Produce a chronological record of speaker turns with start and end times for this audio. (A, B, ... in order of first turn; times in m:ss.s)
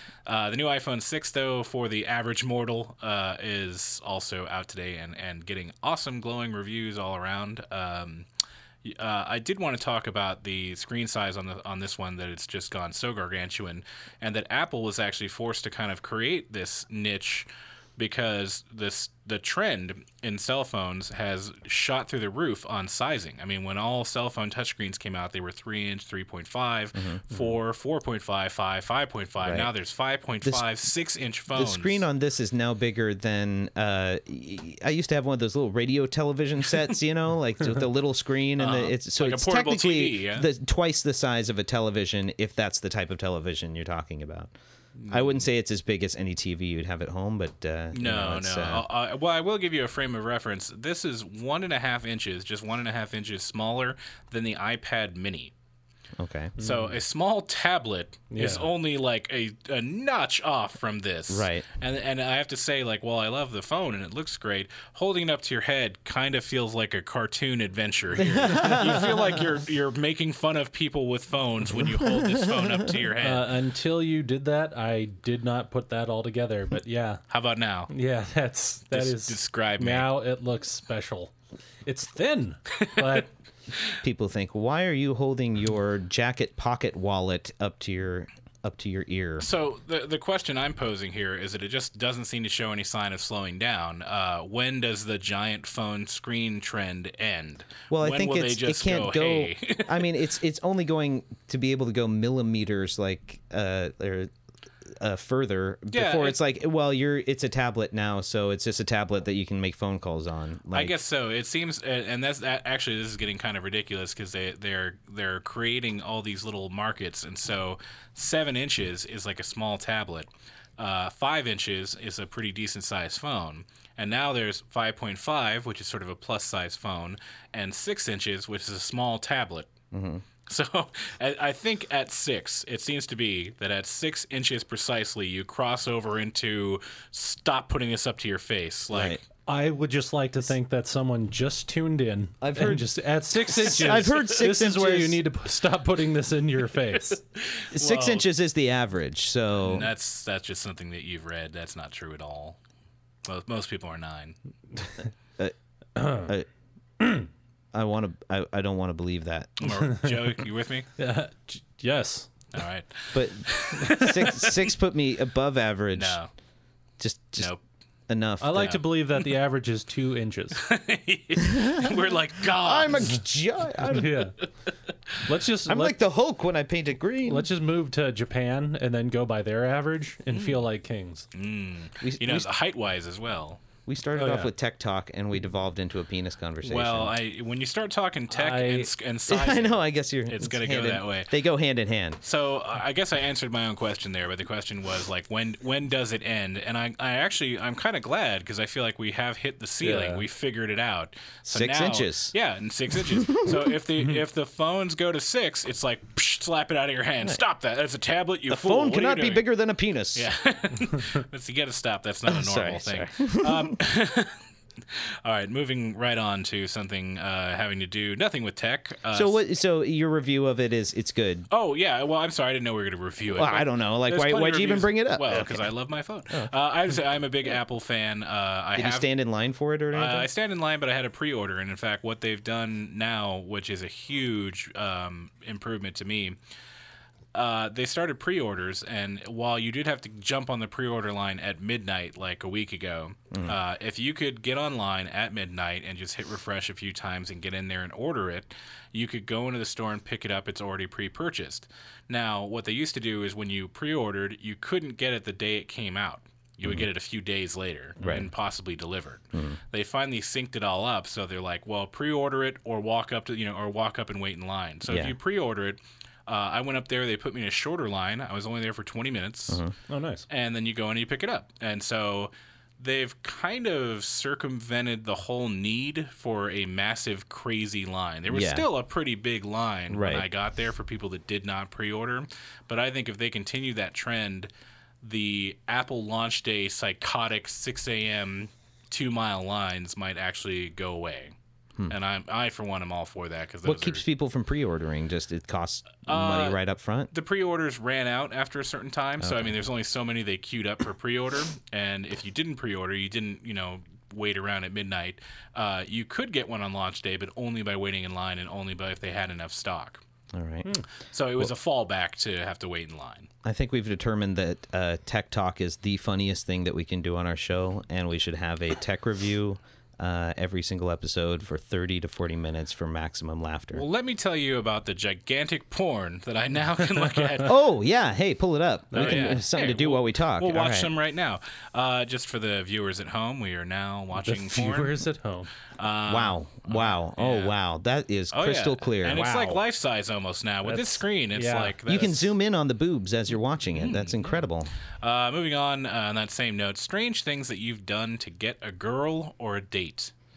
0:00.2-0:08.3 A
0:08.8-0:32.0 A
0:27.0-0:27.2 B
0:29.4-0:29.7 B
0:31.5-0:44.5 B
0:38.6-0:40.5 A
0:45.0-0:45.4 A
0:45.1-0:48.9 B
0:47.9-0:55.5 A
0:56.2-0:56.6 B
0:56.6-0:56.9 C
0:56.6-1:13.5 A
0:58.3-0:58.7 C
1:01.3-1:01.6 B
1:08.2-1:09.4 B
1:11.8-1:12.9 B
1:13.2-1:17.2 C
1:17.3-1:17.9 A
1:17.9-1:21.3 C
1:18.9-1:20.1 A
1:21.8-1:23.3 C
1:22.8-1:23.1 A
1:24.0-1:29.5 B
1:29.4-1:40.1 A
1:37.9-1:44.3 B
1:45.0-1:50.9 B
1:45.9-1:46.4 A
1:50.7-2:09.7 A
2:09.9-2:10.2 B
2:10.5-2:19.2 A
2:18.9-2:19.2 B
2:19.5-2:27.2 C
2:22.4-2:22.9 B
2:23.5-2:25.2 B
2:23.6-2:24.2 A
2:27.4-2:28.2 A
2:27.7-2:29.9 B
2:29.6-2:32.6 A
2:33.2-2:34.4 A
2:36.0-2:36.3 C
2:37.0-2:37.3 C
2:37.7-2:39.7 B
2:39.6-2:40.9 A
2:39.7-2:40.3 C
2:41.0-2:42.3 C
2:42.5-2:44.7 A
2:43.1-2:46.2 B
2:45.9-2:46.3 A
2:47.0-2:47.5 B
2:48.1-2:48.8 B
2:48.4-2:50.6 C
2:50.6-2:53.2 A
2:51.4-2:54.2 B
2:53.8-2:54.4 C
2:55.2-2:56.0 C
2:55.6-2:57.5 B
2:57.2-3:01.3 C
3:00.3-3:00.6 A
3:01.3-3:03.6 A
3:02.0-3:02.5 B
3:03.9-3:07.1 B
3:04.1-3:04.5 C
3:06.6-3:11.3 A
3:08.3-3:08.9 C
3:09.3-3:12.2 B
3:12.2-3:29.5 A
3:19.8-3:20.2 C
3:21.5-3:22.3 B
3:23.1-3:23.7 B
3:28.5-3:30.3 B
3:30.1-3:34.4 A
3:32.3-3:33.8 B
3:34.9-3:39.4 A
3:39.1-3:41.5 B
3:41.5-3:49.1 A
3:43.4-3:45.7 B
3:48.8-3:50.3 B
3:49.9-3:56.4 A
3:57.3-4:29.6 A
4:03.3-4:03.6 B
4:18.0-4:18.3 B
4:24.9-4:25.1 B
4:29.9-4:30.2 C
4:30.3-4:44.5 A
4:38.3-4:38.6 B
4:39.9-4:40.3 B
4:45.0-4:51.4 A
4:51.9-4:54.0 A
4:53.6-4:57.1 B
4:56.0-4:56.6 A
4:57.1-5:10.0 A
4:59.2-4:59.5 B
5:10.3-5:10.7 B
5:11.1-5:13.3 A
5:13.4-5:23.8 B
5:23.7-5:27.6 A
5:27.4-5:30.9 B
5:28.9-5:35.0 A
5:29.0-5:29.3 C
5:34.2-5:35.5 C
5:35.8-5:37.5 A
5:36.1-5:39.6 B
5:38.3-5:42.3 A
5:40.6-5:41.8 C
5:41.9-5:44.7 B
5:43.8-5:44.4 A
5:45.0-5:50.1 A